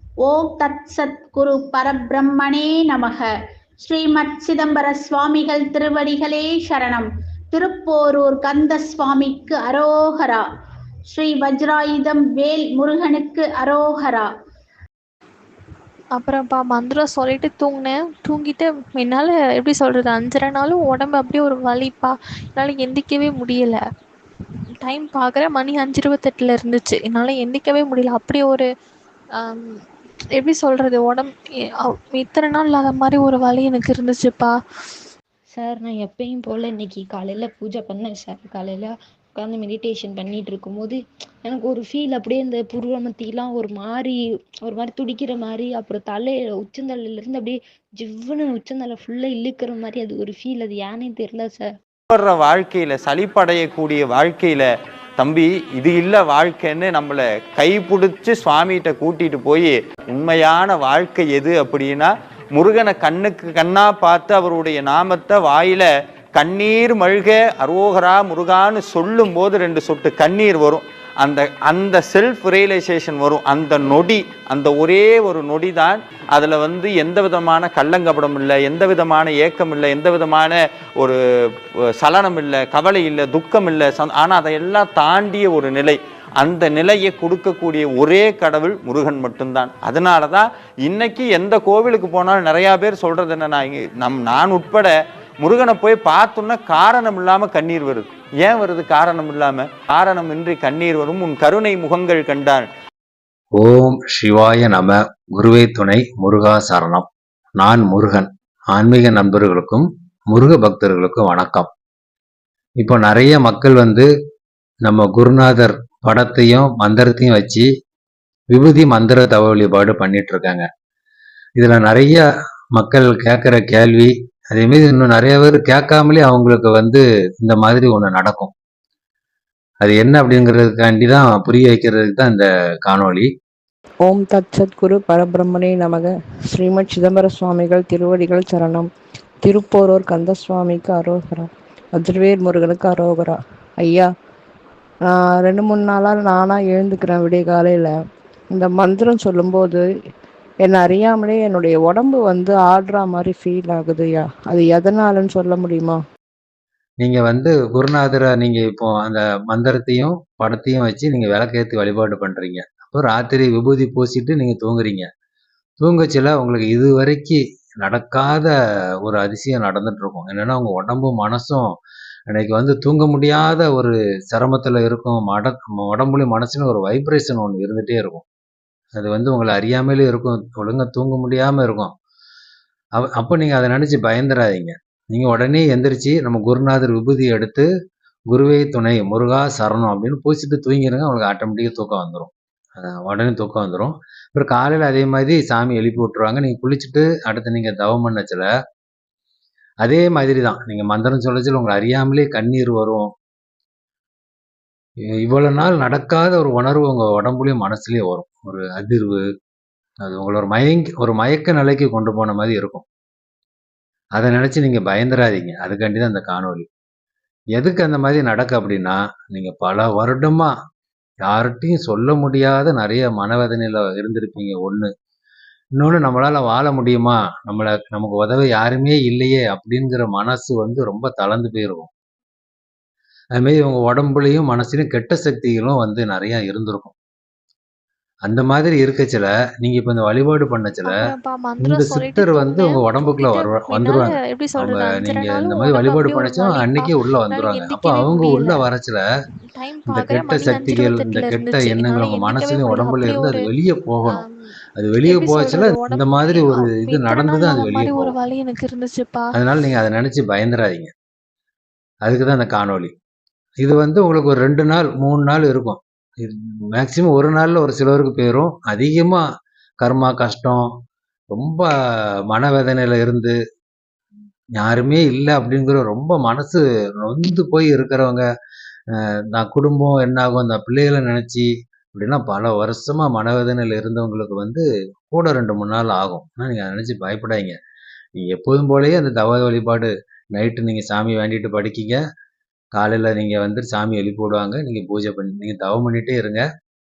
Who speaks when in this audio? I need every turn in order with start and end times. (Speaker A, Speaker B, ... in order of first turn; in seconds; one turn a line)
Speaker A: 0.2-3.3
Speaker A: 3.8-10.4
Speaker A: 11.1-14.3
Speaker B: 16.1-23.8
Speaker B: 24.8-28.6
Speaker B: 29.4-29.8
Speaker B: 30.4-31.3
Speaker B: 31.8-34.5
Speaker C: 35.5-51.7
Speaker D: 52.1-81.2
Speaker D: 82.0-102.7
Speaker E: 103.6-107.1
Speaker E: 107.6-111.7
Speaker E: 112.8-114.1
Speaker E: 114.8-117.7
Speaker E: 118.5-120.6
Speaker E: 121.6-122.2
Speaker E: 122.7-128.5
Speaker E: 129.8-133.3
Speaker F: 134.0-138.9
Speaker F: 139.4-144.1
Speaker F: 145.1-147.9
Speaker F: 148.5-149.8
Speaker F: 150.6-156.0
Speaker E: 157.0-165.1
Speaker E: 165.8-168.5
Speaker E: 169.0-171.7
Speaker E: 172.3-178.2
Speaker E: 179.0-181.9
Speaker E: 183.0-187.7
Speaker E: 188.3-198.5
Speaker E: 199.8-203.1
Speaker E: 205.2-209.2
Speaker E: 210.1-212.8
Speaker E: 214.2-216.7
Speaker E: 217.6-220.5
Speaker E: 221.2-224.9
Speaker E: 225.8-231.9
Speaker E: 233.4-236.9
Speaker E: 238.3-240.9
Speaker B: 240.9-248.6
Speaker E: 241.6-249.0
Speaker B: 249.6-253.5
Speaker E: 249.9-254.2
Speaker E: 254.8-258.1
Speaker B: 255.0-259.2
Speaker E: 259.3-260.9
Speaker E: 262.0-262.9
Speaker E: 263.6-269.2
Speaker E: 269.8-270.6
Speaker E: 271.3-271.7
Speaker E: 272.3-273.4
Speaker E: 274.6-278.2
Speaker E: 278.9-287.5
Speaker E: 288.1-292.0
Speaker E: 292.7-296.4